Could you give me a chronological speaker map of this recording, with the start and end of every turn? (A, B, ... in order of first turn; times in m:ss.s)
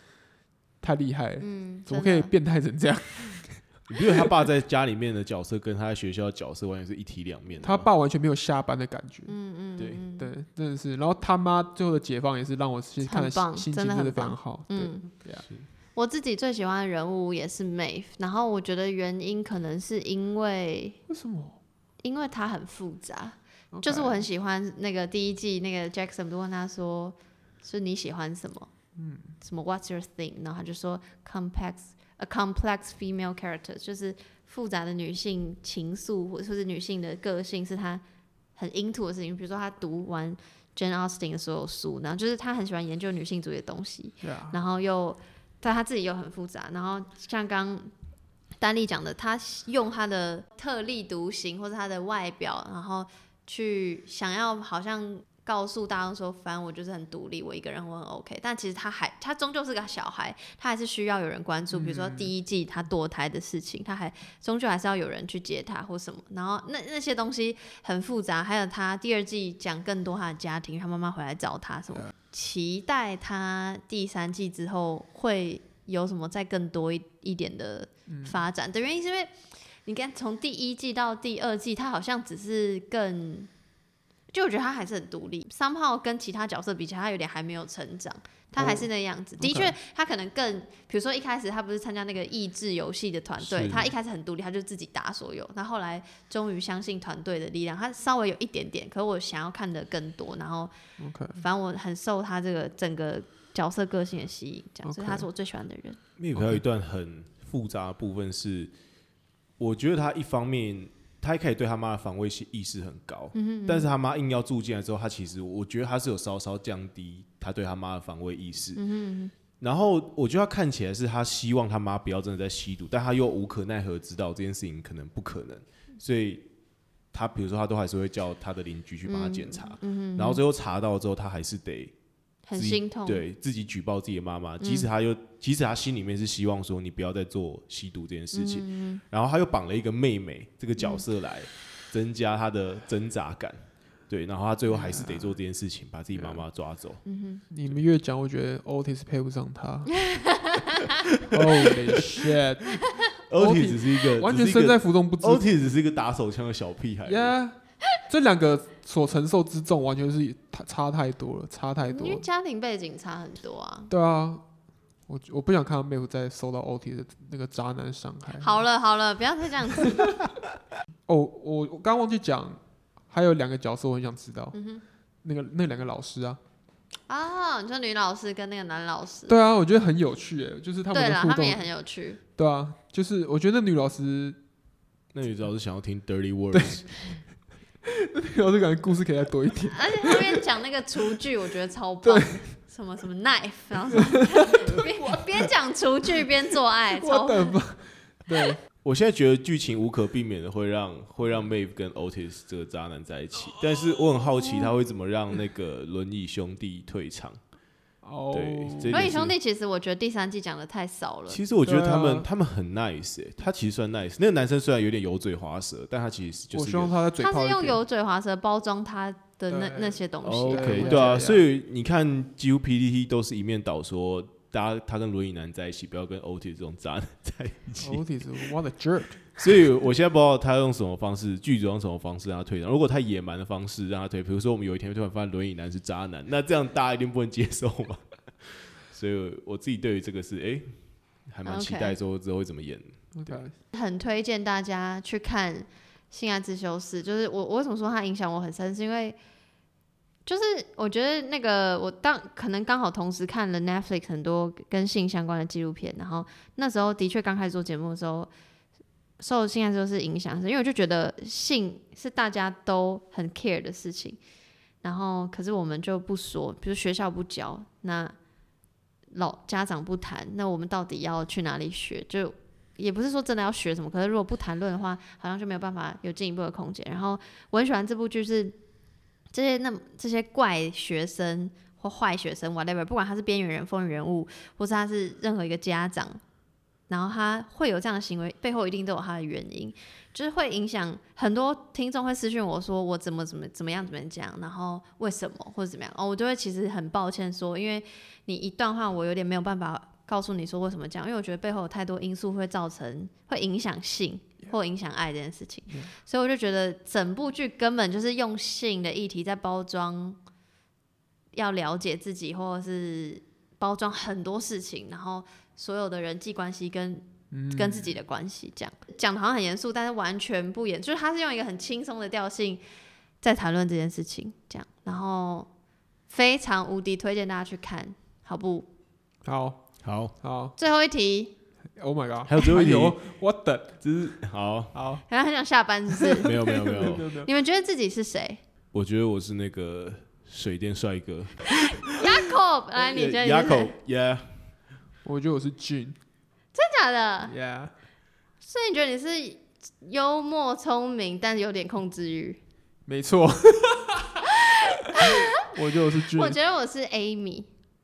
0:00.8-0:03.6 A
0:01.4-0:02.3 B
0:03.9-0:07.9 C
0:07.6-0:09.3 A
0:09.3-0:10.4 B
0:10.2-0:15.4 A
0:13.0-0:15.1 B
0:16.0-0:21.0 B
0:21.1-0:21.6 A
0:22.0-0:28.7 B
0:23.7-0:24.2 A
0:29.0-0:29.3 A
0:29.4-0:38.0 B
0:38.6-0:47.9 B
0:44.2-0:44.6 A
0:48.6-1:19.3 B
1:01.7-1:02.3 A
1:18.1-1:18.4 A
1:19.8-1:23.5 B
1:24.3-1:40.7 B
1:29.4-1:29.7 A
1:33.4-1:33.9 C
1:41.0-1:41.4 A
1:41.4-1:46.0 B
1:44.8-1:45.3 A
1:46.2-1:48.7 C
1:46.4-1:46.6 A
1:49.6-1:58.8 C
1:53.3-1:53.9 B
1:58.8-1:59.3 B
1:59.6-2:06.4 C
2:07.1-2:11.9 C
2:09.0-2:10.4 B
2:12.5-2:13.2 B
2:12.5-2:27.0 C
2:14.6-2:14.9 B
2:18.3-2:19.0 B
2:20.8-2:21.0 B
2:24.7-2:25.4 A
2:26.1-2:26.4 A
2:27.0-2:27.4 B
2:27.5-2:30.0 A
2:30.0-2:30.8 B
2:31.0-2:31.4 C
2:31.3-2:32.8 A
2:33.3-2:37.3 C
2:33.4-2:35.4 A
2:37.0-2:42.2 A
2:41.8-2:43.9 B
2:43.9-2:44.4 A
2:45.1-2:48.6 A
2:48.4-2:50.1 B
2:49.8-2:50.2 A
2:51.1-2:54.6 A
2:54.5-2:54.8 B
2:55.2-2:56.4 A
2:57.1-2:59.3 B
2:59.3-3:01.6 A
3:00.9-3:02.2 B
3:02.4-3:04.4 A
3:05.1-3:06.9 C
3:06.5-3:06.8 A
3:07.8-3:10.4 A
3:09.6-3:17.6 B
3:12.0-3:12.5 A
3:13.9-3:15.5 A
3:16.1-3:18.6 A
3:18.8-3:27.4 C
3:28.0-3:29.1 A
3:28.3-3:29.3 C
3:28.9-3:31.4 B
3:31.3-3:36.9 C
3:31.6-3:32.3 A
3:36.5-3:37.8 A
3:37.2-3:41.0 B
3:39.5-3:41.4 A
3:40.2-3:48.0 C
3:47.8-3:49.3 A
3:49.4-4:00.7 C
4:01.3-4:03.4 C
4:01.4-4:02.0 B
4:03.1-4:03.5 A
4:03.7-4:09.2 B
4:10.2-4:18.3 B
4:19.2-4:24.2 B
4:24.8-4:28.1 B
4:29.1-4:38.6 B
4:39.3-4:46.2 B
4:46.9-5:10.2 B
5:11.3-5:22.6 B
5:17.3-5:18.0 A
5:23.2-5:25.5 B
5:26.1-5:28.7 B
5:29.2-5:29.6 A
5:29.8-5:30.1 C
5:30.2-5:30.5 A
5:30.6-5:31.3 B
5:31.8-5:33.8 A
5:32.2-5:33.0 C
5:33.8-5:34.7 C
5:34.7-5:35.0 A
5:35.1-5:36.4 B
5:36.0-5:37.3 A
5:36.2-5:37.1 C
5:37.2-5:38.4 B
5:38.7-5:42.2 C
5:41.6-5:43.7 B
5:42.7-5:44.4 C
5:45.0-5:46.0 A
5:46.5-5:47.3 B
5:47.2-5:47.7 A
5:48.4-5:52.4 B
5:52.9-5:56.4 A
5:54.9-5:57.5 B